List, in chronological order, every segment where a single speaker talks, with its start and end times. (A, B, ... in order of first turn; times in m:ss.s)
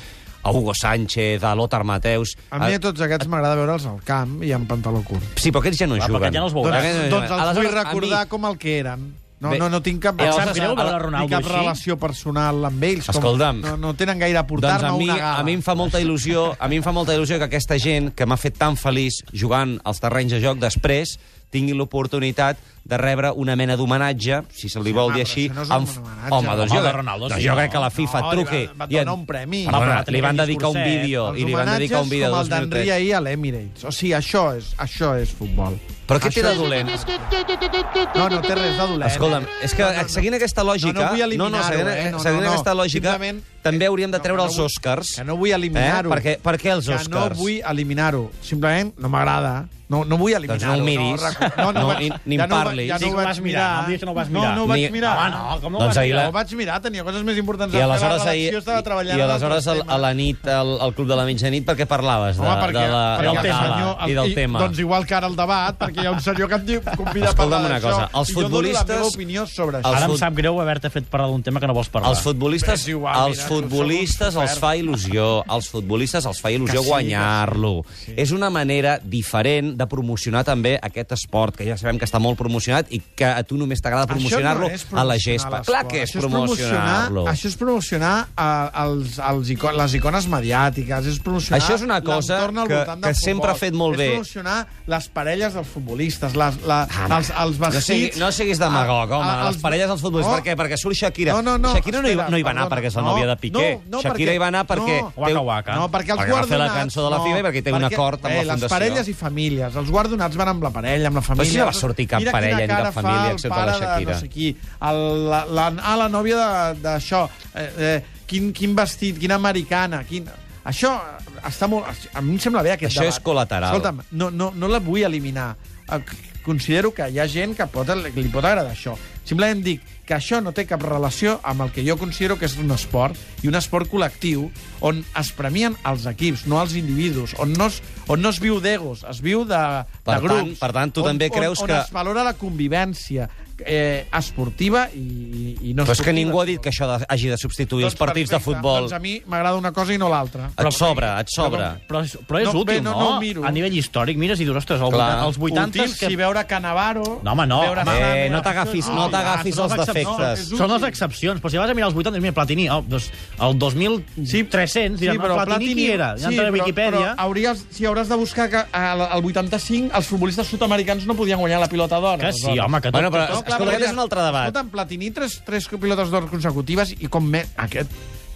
0:00.4-0:02.8 A
0:02.5-0:05.3 B
0:05.4-0:08.2 A
0:06.0-0:07.0 C
0:06.6-0:15.9 B
0:09.4-0:11.0 A
0:10.2-0:11.8 C
0:13.1-0:13.7 A
0:14.6-0:32.9 A
0:24.9-0:26.8 B
0:26.6-0:27.9 C
0:27.9-0:29.8 B
0:29.7-0:31.2 C
0:31.2-0:37.3 B
0:36.1-0:45.2 A
0:38.1-0:40.3 B
0:40.8-0:46.3 B
0:45.7-0:47.5 A
0:46.8-0:55.4 B
0:50.5-0:53.2 A
0:51.4-0:52.0 C
0:53.0-0:56.3 C
0:54.6-0:55.2 A
0:55.8-0:56.4 A
0:56.1-1:00.1 B
0:57.7-1:04.8 A
1:02.4-1:10.1 B
1:03.2-1:03.9 C
1:07.2-1:09.2 A
1:09.8-1:10.2 A
1:09.9-1:12.3 C
1:12.0-1:27.4 A
1:12.6-1:14.7 B
1:16.6-1:18.2 B
1:24.1-1:40.5 B
1:31.5-1:34.2 A
1:36.9-1:45.4 A
1:41.3-1:45.2 B
1:45.2-1:45.9 C
1:45.7-2:26.7 B
1:46.2-1:49.0 A
1:51.4-1:54.2 A
2:02.8-2:03.9 A
2:20.0-2:21.9 A
2:25.8-2:29.0 A
2:27.8-2:31.8 B
2:30.6-2:31.8 A
2:31.8-2:36.2 C
2:32.4-2:33.6 B
2:34.9-2:35.4 A
2:35.4-2:41.0 B
2:37.2-2:47.2 C
2:37.8-2:40.5 A
2:44.2-2:52.7 B
2:52.2-2:54.0 C
2:52.9-2:54.6 A
2:53.2-2:57.9 B